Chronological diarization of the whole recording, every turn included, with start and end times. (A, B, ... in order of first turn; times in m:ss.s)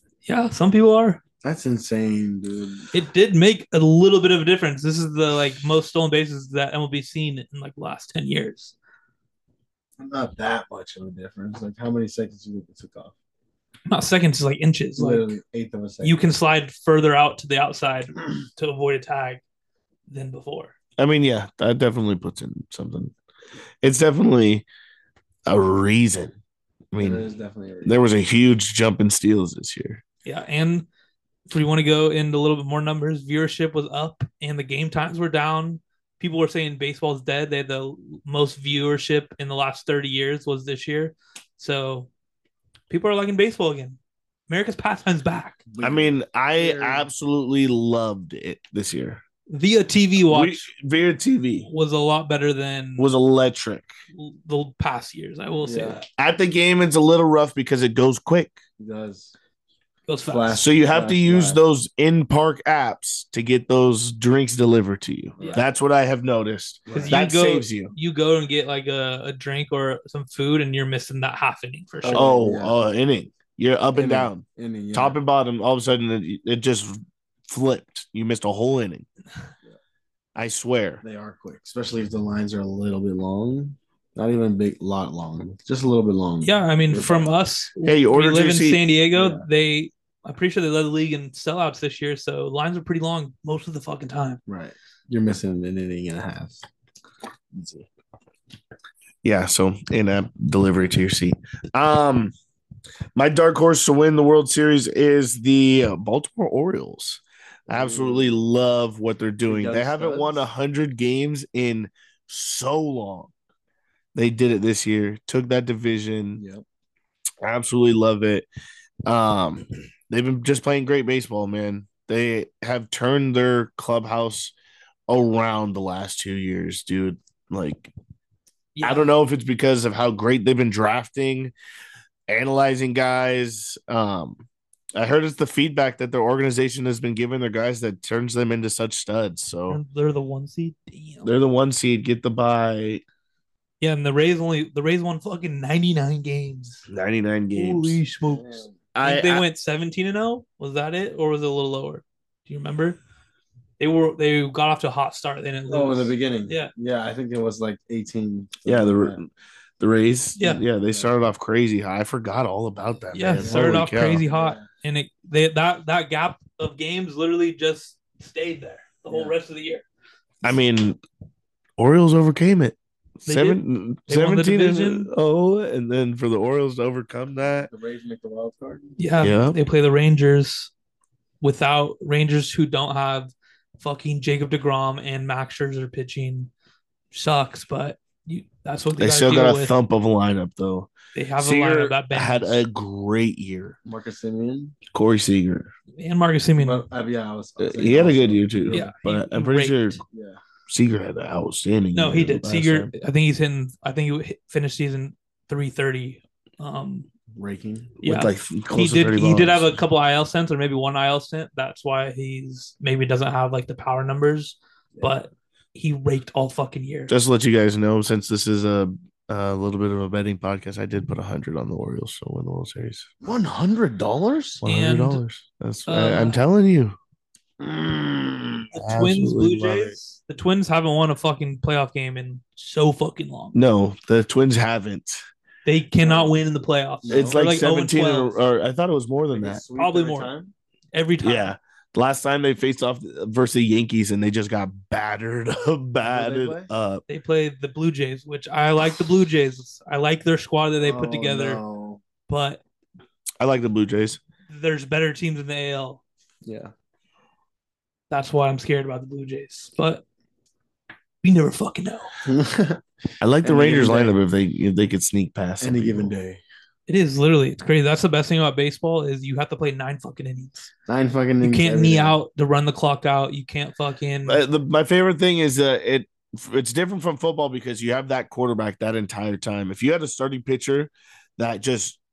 0:00.2-0:01.2 A
0:01.4-0:02.9 B
0:02.9-0:08.8 A
0:10.0-0:13.2 B
0:13.9-0:15.4 A
0:15.0-0:16.2 B
0:16.0-0:19.4 A
0:20.1-0:20.8 A
0:21.0-0:23.1 C
0:23.8-0:24.7 C
0:25.5-0:26.4 C
0:26.9-0:27.2 C
0:27.0-0:28.1 B
0:27.8-0:30.0 C
0:30.2-0:30.9 A
0:31.5-0:42.1 A
0:42.9-0:44.0 A
0:44.5-0:45.6 A
0:45.7-0:47.1 B
0:45.8-0:49.2 C
0:49.5-0:50.7 A
0:50.2-0:51.7 C
0:51.7-0:53.1 A
0:53.0-0:53.9 C
0:54.1-0:56.1 A
0:55.6-0:56.0 B
0:56.2-0:58.6 C
0:58.8-0:59.3 B
1:00.1-1:00.7 A
1:00.3-1:01.6 B
1:00.6-1:07.9 C
1:05.4-1:05.6 B
1:06.9-1:07.2 B
1:06.9-1:12.4 A
1:12.0-1:12.8 B
1:12.1-1:19.1 C
1:13.9-1:15.2 B
1:20.4-1:21.0 C
1:21.0-1:27.3 B
1:26.4-1:34.4 A
1:27.8-1:28.8 C
1:29.1-1:29.4 B
1:34.5-1:36.6 B
1:37.5-1:37.9 B
1:39.2-1:42.3 C
1:43.2-1:53.3 C
1:47.7-1:48.4 B
1:49.5-1:50.4 B
1:54.2-1:56.4 C
1:56.4-1:56.6 B
1:57.4-1:58.5 C
1:59.1-2:04.5 C
2:05.1-2:07.9 C
2:08.8-2:09.1 A
2:08.8-2:11.5 C
2:12.3-2:14.4 C
2:15.0-2:19.8 C
2:19.7-2:21.3 A
2:21.2-2:23.0 C
2:23.8-2:26.9 A
2:26.9-2:28.0 C
2:27.5-2:33.0 A
2:28.3-2:28.8 B
2:29.0-2:29.4 C
2:33.8-2:36.7 A
2:35.7-2:39.2 B
2:38.6-2:44.2 C
2:40.8-2:41.2 B
2:43.1-2:49.8 A
2:43.4-2:44.7 B
2:49.1-2:49.4 B
2:50.4-2:51.0 C
2:51.8-2:57.7 C
2:53.3-2:55.1 A
2:57.7-2:59.0 B
2:59.0-3:00.7 A
2:59.2-2:59.6 C
3:01.4-3:06.5 A
3:07.1-3:09.7 A
3:09.0-3:13.8 C
3:11.2-3:12.6 A
3:13.8-3:14.8 B
3:14.9-3:15.7 C
3:16.0-3:16.9 A
3:16.6-3:18.9 B
3:17.6-3:20.0 C
3:18.7-3:20.0 A
3:20.1-3:20.4 B
3:20.7-3:22.9 C
3:22.0-3:27.1 A
3:27.3-3:28.0 B
3:28.0-3:37.1 A
3:28.0-3:29.8 C
3:37.1-3:43.1 C
3:43.2-3:44.6 B
3:44.6-3:47.0 C
3:44.6-3:45.2 A
3:45.9-3:46.4 A
3:47.6-3:48.7 B
3:48.7-3:53.6 A
3:48.8-3:50.0 C
3:53.5-3:55.2 C
3:55.6-3:58.4 A
3:56.0-3:56.4 B
3:57.0-3:57.4 B
3:57.1-3:59.6 C
3:59.3-4:00.5 B
3:59.8-4:00.3 A
4:00.9-4:01.5 A
4:01.2-4:07.0 C
4:06.0-4:06.7 B
4:07.1-4:11.6 A
4:10.8-4:12.0 B
4:12.3-4:12.6 A
4:13.4-4:14.2 C
4:14.5-4:16.0 A
4:16.4-4:16.7 B
4:18.1-4:20.0 A
4:21.2-4:22.1 A
4:22.2-4:22.8 B
4:23.2-4:26.1 C
4:23.4-4:24.2 B
4:25.6-4:26.4 B
4:26.9-4:30.7 A
4:30.9-4:32.2 B
4:31.4-4:34.4 A
4:34.3-4:42.0 C